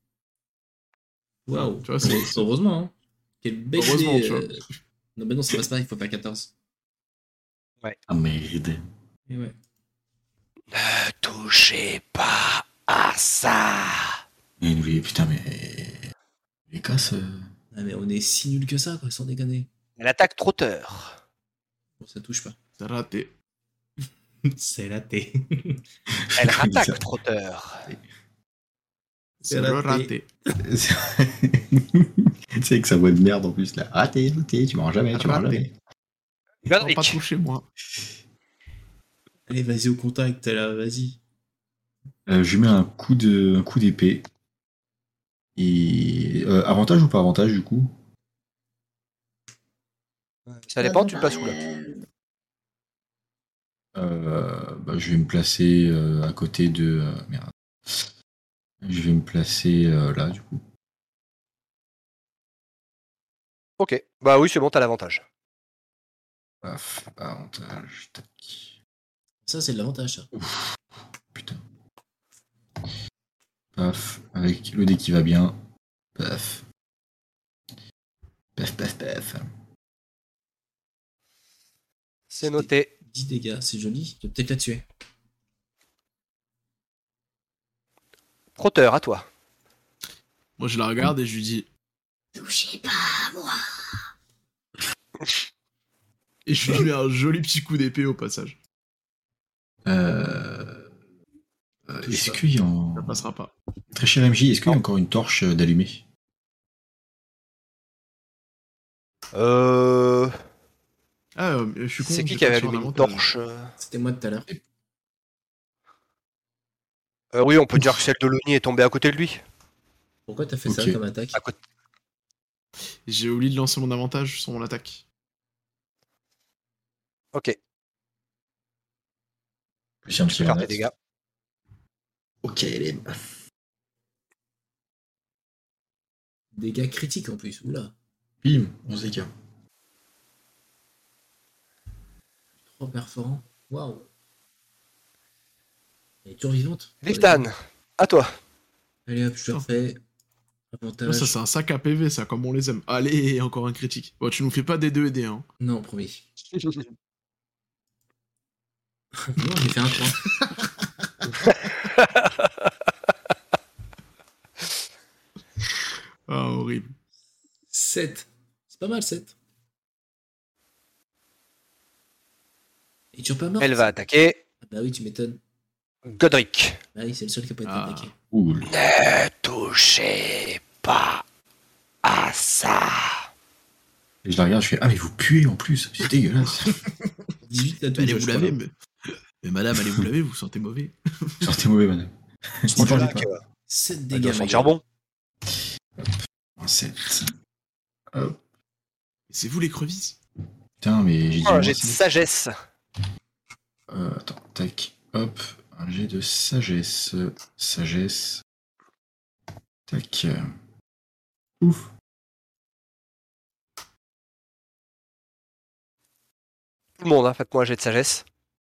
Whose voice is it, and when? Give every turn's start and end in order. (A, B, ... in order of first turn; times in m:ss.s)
0:01.5-0:04.6 A
0:01.5-0:02.4 B
0:03.8-0:04.6 B
0:05.2-0:06.5 A
0:08.1-0:08.8 C
0:09.3-0:09.5 A
0:10.7-0:14.2 D
0:14.6-0:16.1 C
0:16.7-0:17.5 C
0:17.7-0:19.7 A
0:20.0-0:21.2 D
0:22.0-0:22.6 A
0:22.8-0:23.3 B
0:24.4-0:25.8 A
0:26.1-0:27.0 C
0:26.4-0:27.9 D
0:29.4-0:30.3 B
0:29.5-0:30.1 A
0:30.6-0:35.7 C
0:35.1-0:35.6 B
0:36.6-0:37.2 D
0:36.8-0:37.7 B
0:39.5-0:41.2 A
0:42.3-0:44.2 C
0:45.6-0:47.9 C
0:50.5-0:51.6 D
0:50.8-0:52.0 E
0:53.9-0:58.1 C
0:58.8-1:00.6 C
1:03.8-1:05.2 D
1:06.6-1:08.7 C
1:09.4-1:10.3 A
1:10.3-1:10.8 C
1:11.3-1:11.6 C
1:13.7-1:15.6 C
1:16.2-1:16.6 C
1:18.6-1:19.5 C
1:22.3-1:22.9 D
1:22.4-1:24.8 A
1:28.6-1:29.3 D
1:30.6-1:31.7 B
1:32.3-1:33.6 E
1:36.4-1:38.6 B
1:39.8-1:40.9 C
1:41.9-1:43.2 C
1:42.9-1:43.5 B
1:43.9-1:46.0 C
1:49.3-1:50.3 D
1:51.4-1:53.3 B
1:52.0-1:53.7 D
1:53.8-1:54.5 A
1:57.3-1:59.4 D
2:00.3-2:01.4 A
2:00.6-2:01.0 C
2:03.1-2:05.0 B
2:10.0-2:10.8 C
2:10.3-2:10.9 D
2:12.4-2:13.1 C
2:16.5-2:17.9 A
2:18.4-2:19.3 C
2:22.7-2:24.1 A
2:26.2-2:27.4 A
2:27.0-2:28.3 D
2:29.1-2:30.0 A
2:30.7-2:31.4 A
2:31.0-2:35.4 B
2:35.6-2:36.2 A
2:36.6-2:36.8 D
2:39.2-2:40.3 A
2:41.5-2:42.5 D
2:46.3-2:46.9 B
2:47.7-2:49.3 A
2:53.1-2:53.9 A
2:53.6-2:54.4 D
2:54.6-2:55.4 A
2:56.1-2:56.8 D
2:56.9-2:58.1 A
2:57.6-2:58.1 B
2:58.3-2:58.7 C
2:58.7-3:01.2 D
3:02.0-3:03.2 D
3:04.2-3:06.8 C
3:07.4-3:08.6 A
3:07.9-3:11.5 B
3:11.4-3:13.3 C
3:12.7-3:13.4 D
3:12.7-3:13.1 A
3:13.7-3:14.8 A
3:14.1-3:14.8 D
3:15.5-3:17.3 C
3:18.1-3:18.4 C
3:19.3-3:20.2 B
3:20.8-3:22.0 C
3:21.4-3:22.5 D
3:23.9-3:28.4 C
3:29.9-3:30.4 C
3:31.6-3:31.9 C
3:37.0-3:38.2 D